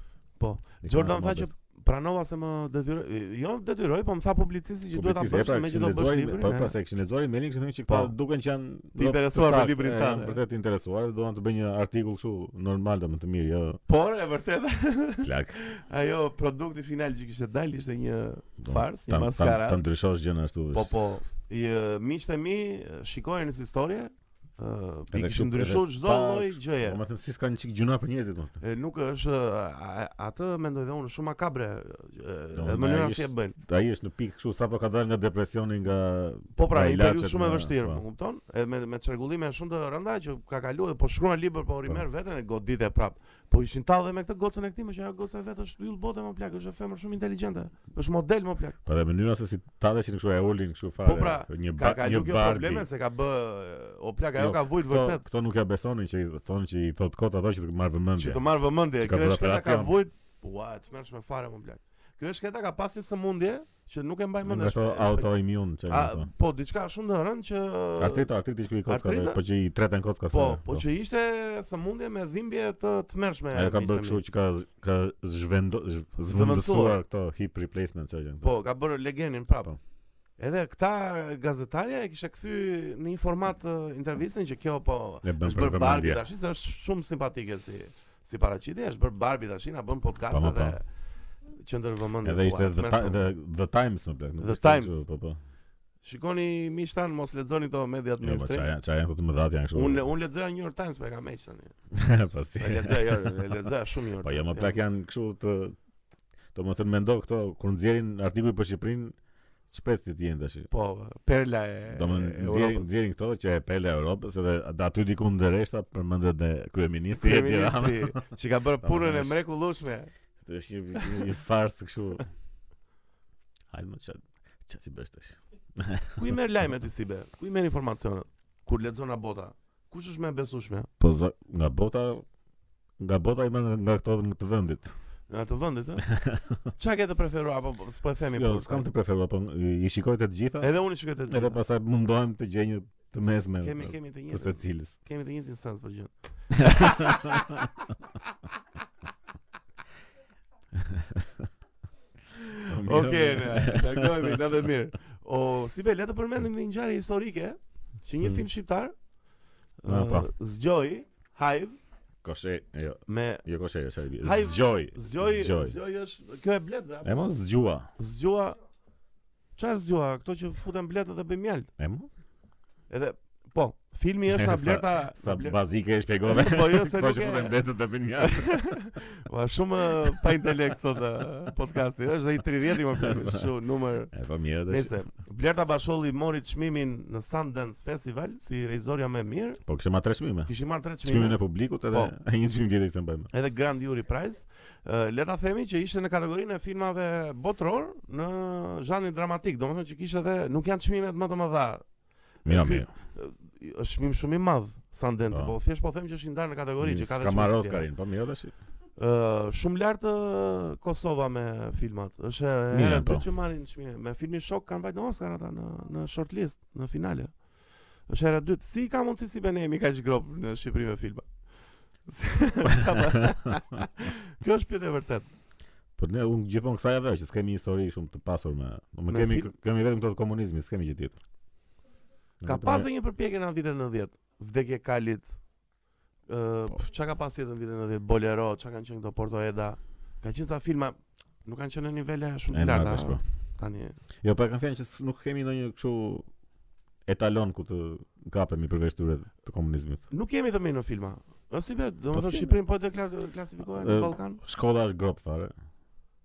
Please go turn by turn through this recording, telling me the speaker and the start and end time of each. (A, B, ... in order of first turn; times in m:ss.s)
0:00.4-0:06.7 A
0:00.8-0:01.5 B
0:04.9-0:13.8 B
0:07.9-0:08.1 A
0:08.9-0:10.4 A
0:13.9-0:19.8 A
0:15.2-0:15.6 B
0:18.6-0:21.1 B
0:20.7-0:27.0 A
0:25.1-0:28.6 B
0:28.6-0:33.6 A
0:32.5-0:38.0 B
0:36.5-0:48.8 A
0:48.8-0:52.9 B
0:51.0-0:55.2 A
0:54.4-1:00.0 B
0:58.2-1:05.3 A
1:04.4-1:06.3 B
1:05.8-1:08.3 A
1:08.0-1:10.8 B
1:08.9-1:09.4 A
1:10.3-1:14.2 A
1:13.5-1:18.5 B
1:16.3-1:17.0 A
1:18.4-1:19.7 A
1:20.4-1:30.8 A
1:25.2-1:26.2 B
1:30.3-1:30.8 B
1:31.6-1:33.2 A
1:32.2-1:35.4 B
1:34.4-1:35.0 A
1:36.0-1:38.7 A
1:38.2-1:40.0 B
1:39.7-1:41.8 A
1:41.9-1:43.4 B
1:42.6-1:44.8 A
1:44.2-1:45.8 B
1:46.5-1:49.1 B
1:49.7-1:50.7 B
1:50.7-1:52.9 A
1:51.9-1:58.2 B
1:57.2-2:00.1 A
1:58.8-1:59.4 B
2:00.4-2:02.2 B
2:03.7-2:06.4 B
2:06.1-2:10.9 A
2:11.0-2:12.2 B
2:13.0-2:14.9 B
2:15.3-2:16.1 A
2:16.1-2:16.6 B
2:16.8-2:18.8 A
2:18.2-2:20.7 B
2:20.6-2:21.6 A
2:21.3-2:25.0 B
2:23.6-2:27.6 A
2:26.6-2:27.6 B
2:30.8-2:31.4 B
2:32.3-2:38.9 A
2:32.7-2:34.4 B
2:39.8-2:41.8 A
2:39.8-2:40.3 B
2:42.2-2:45.8 B
2:43.1-2:43.4 A
2:44.2-2:47.2 A
2:47.0-2:47.9 B
2:48.0-2:48.6 A
2:49.6-2:51.7 A
2:51.8-2:52.1 B
2:52.9-2:55.6 A
2:54.3-2:58.8 B
2:56.3-2:57.6 A
2:58.2-3:04.1 A
3:03.0-3:03.4 B
3:04.1-3:04.9 B
3:04.6-3:09.6 A
3:09.6-3:10.5 B
3:10.4-3:12.1 A
3:11.0-3:13.3 B
3:13.3-3:21.8 A
3:22.4-3:22.9 B
3:22.4-3:27.9 A
3:26.8-3:28.5 B
3:29.0-3:37.3 A
3:32.7-3:33.2 B
3:38.1-3:41.3 A
3:42.0-3:45.3 A
3:46.0-3:51.2 B
3:49.1-3:49.5 A
3:52.4-3:52.9 B
3:52.4-3:55.4 A
3:56.3-4:04.0 A
4:02.5-4:03.2 B
4:04.2-4:06.3 B
4:07.1-4:10.0 B
4:10.1-4:14.4 A
4:12.1-4:12.6 B
4:13.7-4:15.5 B